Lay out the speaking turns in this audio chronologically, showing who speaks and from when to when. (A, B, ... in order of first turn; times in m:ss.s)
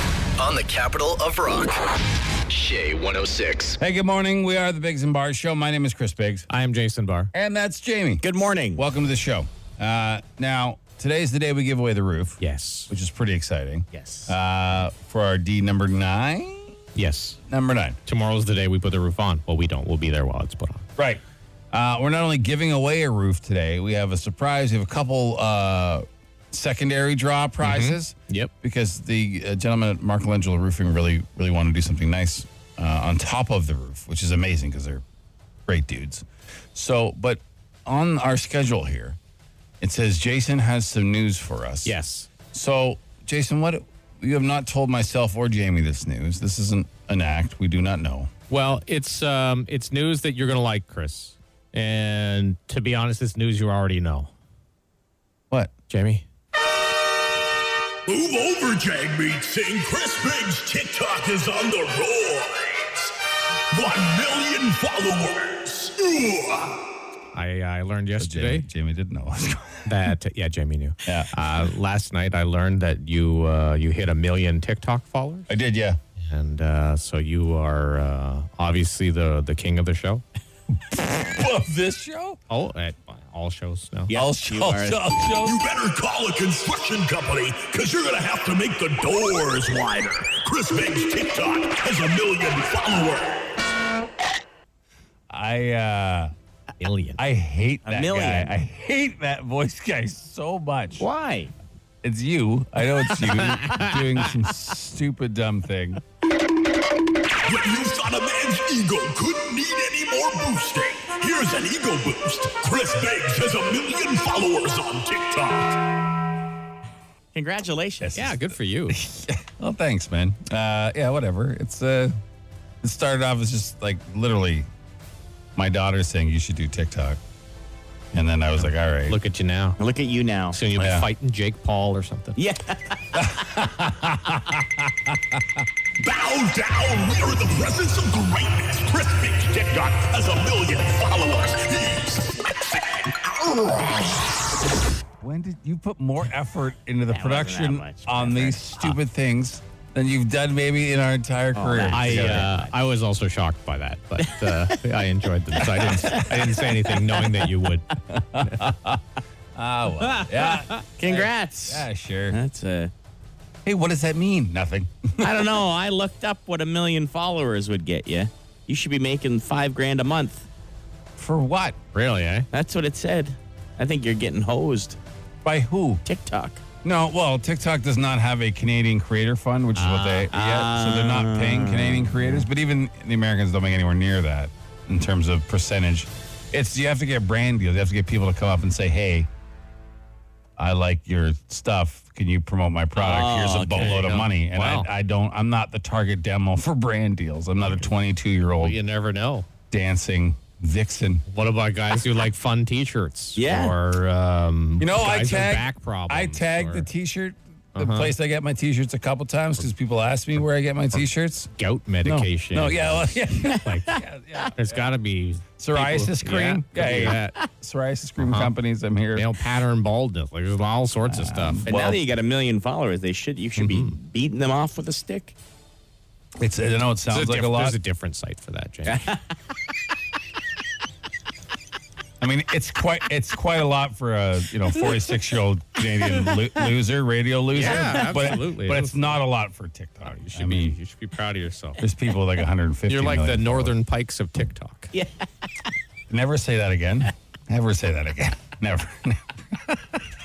0:00.4-0:01.8 A
0:02.5-0:03.8 A
0:03.8-0:06.5 B
0:06.5-0:07.3 C
0:07.3-0:08.2 B
0:08.2-0:08.8 D
0:08.8-0:16.7 B
0:12.4-0:12.9 C
0:13.9-0:14.4 D
0:17.0-0:17.4 C
0:17.5-0:18.0 B
0:18.0-0:20.9 C
0:21.7-0:35.0 B
0:27.6-0:28.5 C
0:35.7-0:39.2 B
0:39.8-0:41.9 B
0:41.8-0:42.3 C
0:42.5-0:48.3 B
0:48.5-0:54.3 C
0:55.9-0:56.2 C
0:58.0-1:03.1 E
1:03.7-1:06.8 E
1:07.3-1:08.7 C
1:08.2-1:09.9 B
1:09.9-1:15.5 C
1:15.5-1:16.0 B
1:16.2-1:20.2 C
1:20.9-1:22.4 B
1:22.5-1:24.2 C
1:24.1-1:25.0 D
1:24.1-1:25.6 B
1:25.4-1:33.4 E
1:35.3-1:36.3 B
1:36.8-1:37.2 C
1:37.2-1:41.1 B
1:37.9-1:38.5 D
1:41.0-1:41.5 D
1:42.0-1:46.0 B
1:43.4-1:43.9 C
1:47.4-1:55.8 E
1:57.3-1:58.2 D
1:58.0-2:02.2 B
1:58.2-1:59.0 C
2:02.8-2:04.7 B
2:05.6-2:07.2 B
2:08.1-2:09.2 B
2:09.1-2:09.8 C
2:09.8-2:10.6 D
2:10.5-2:12.4 C
2:10.8-2:11.1 B
2:12.4-2:13.2 D
2:13.1-2:15.1 B
2:16.0-2:23.9 E
2:25.2-2:32.5 B
2:27.1-2:28.8 D
2:31.5-2:32.7 D
2:31.9-2:38.6 C
2:34.3-2:34.8 D
2:36.1-2:36.5 B
2:38.1-2:39.0 B
2:39.6-2:42.4 B
2:40.1-2:40.8 C
2:41.0-2:42.9 D
2:43.6-2:45.5 B
2:45.2-2:50.4 D
2:51.2-2:51.8 B
2:51.9-2:52.5 C
2:52.5-2:55.0 D
2:55.4-2:56.0 B
2:56.1-2:56.6 D
2:56.8-3:09.3 B
2:59.8-3:00.3 C
3:00.3-3:02.5 D
3:10.6-3:18.8 B
3:13.0-3:14.0 D
3:13.7-3:14.9 C
3:18.6-3:19.5 C
3:19.7-3:21.2 B
3:21.3-3:26.9 C
3:23.4-3:23.8 D
3:24.8-3:31.5 B
3:27.8-3:28.1 C
3:31.6-3:34.0 C
3:32.0-3:34.8 B
3:33.5-3:34.0 D
3:34.6-3:37.4 C
3:35.6-3:39.3 B
3:37.0-3:37.4 D
3:38.2-3:38.5 C
3:39.2-3:42.0 C
3:41.1-3:41.7 B
3:41.7-3:45.3 D
3:43.6-3:43.9 C
3:46.4-3:47.8 B
3:47.1-3:49.1 C
3:48.9-3:49.2 D
3:52.2-4:00.8 B
3:56.1-3:56.5 D
3:57.5-3:59.2 C
3:57.6-3:58.4 D
4:00.0-4:01.8 C
4:01.8-4:03.8 B
4:02.9-4:04.9 C
4:06.1-4:10.0 B